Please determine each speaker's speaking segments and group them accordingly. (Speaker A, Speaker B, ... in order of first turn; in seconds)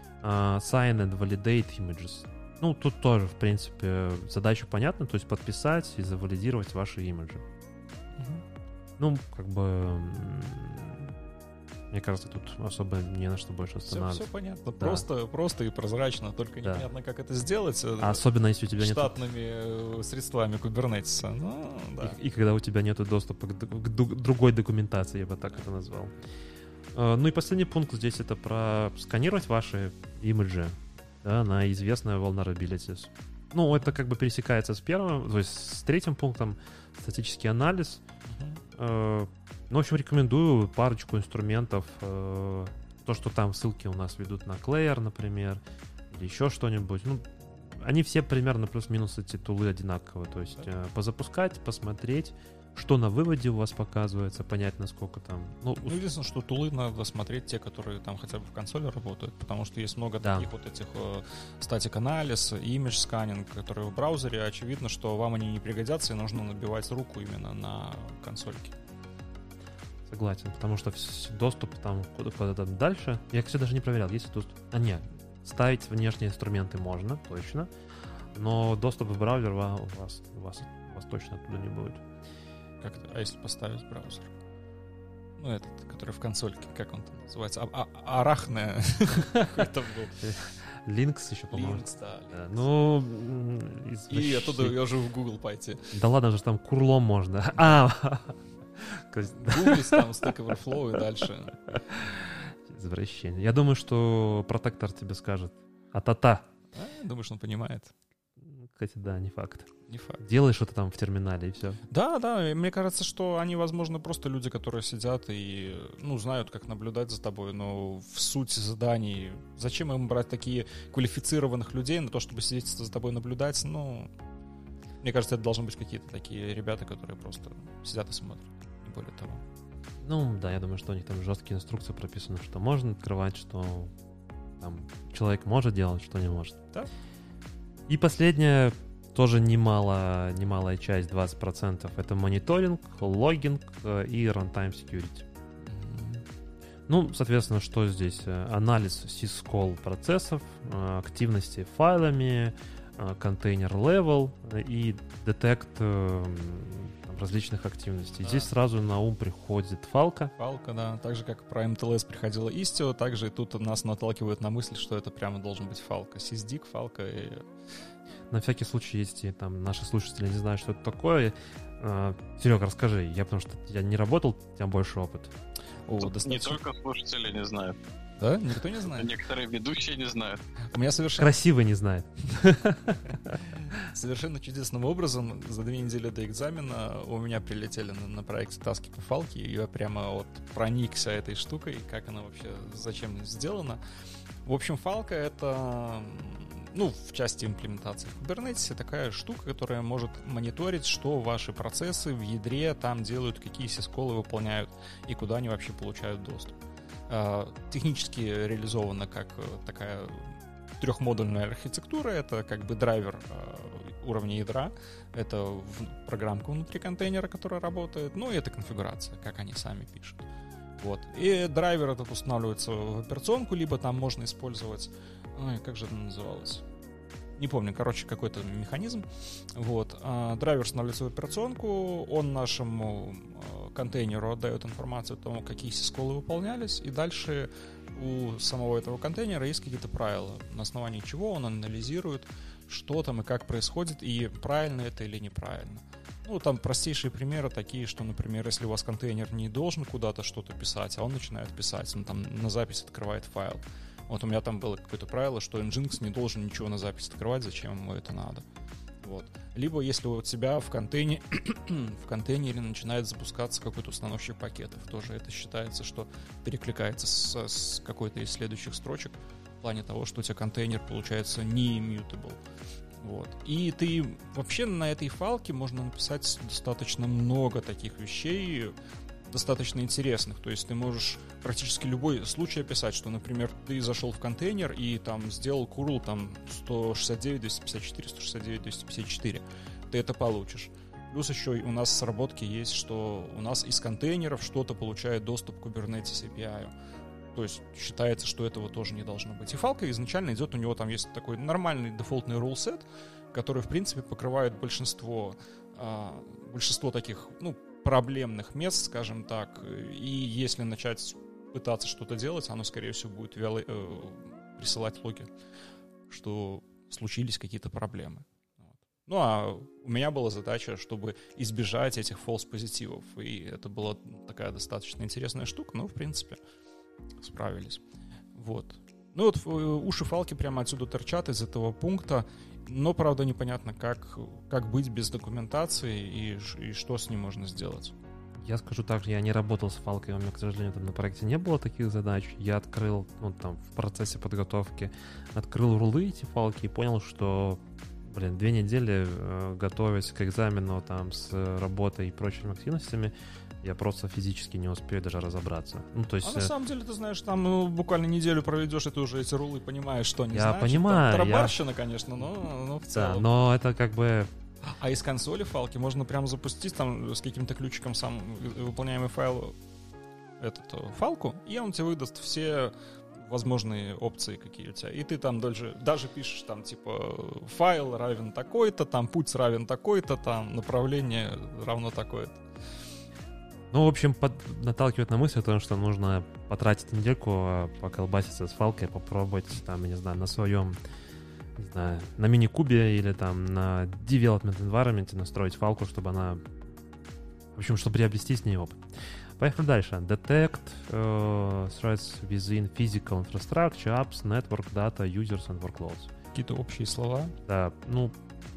Speaker A: 0.2-7.4, 9.0-11.2, 11.9-14.3, 14.8-15.0, 16.6-16.9, 18.0-19.2, 22.0-26.1, 26.9-38.0, 38.7-56.0, 60.2-60.5, 70.1-77.7, 78.3-82.0, 90.2-94.8, 95.9-100.1, 102.7-106.5, 108.4-111.8, 130.0-133.9, 134.6-136.6, 137.9-145.2, 146.9-160.3, 168.3-175.3, 181.2-183.5, 338.4-356.5, 360.3-361.6, 362.9-364.3, 383.7-390.8, 391.6-396.4, 397.5-398.8, 399.4-406.1, 407.4-408.1
Speaker B: 8.2-8.4, 13.9-18.2, 18.8-22.1, 38.3-38.6, 55.8-68.8, 82.8-84.3, 85.4-90.3, 91.5-92.6, 94.1-95.9, 99.3-101.6, 106.7-107.9, 109.9-110.2, 111.9-124.1, 125.0-129.4, 145.7-146.2, 158.2-158.5, 160.4-167.5, 175.8-176.6, 178.2-179.1, 180.7-181.3, 183.5-193.8, 194.4-206.6, 207.1-226.6, 227.4-258.4, 259.0-272.4, 273.0-278.8, 279.3-296.7, 297.3-315.3, 316.1-326.4, 327.2-327.8, 328.3-337.9, 356.2-363.3, 364.6-369.6, 370.4-382.4, 406.3-407.3
Speaker C: 176.0-177.8, 178.9-180.4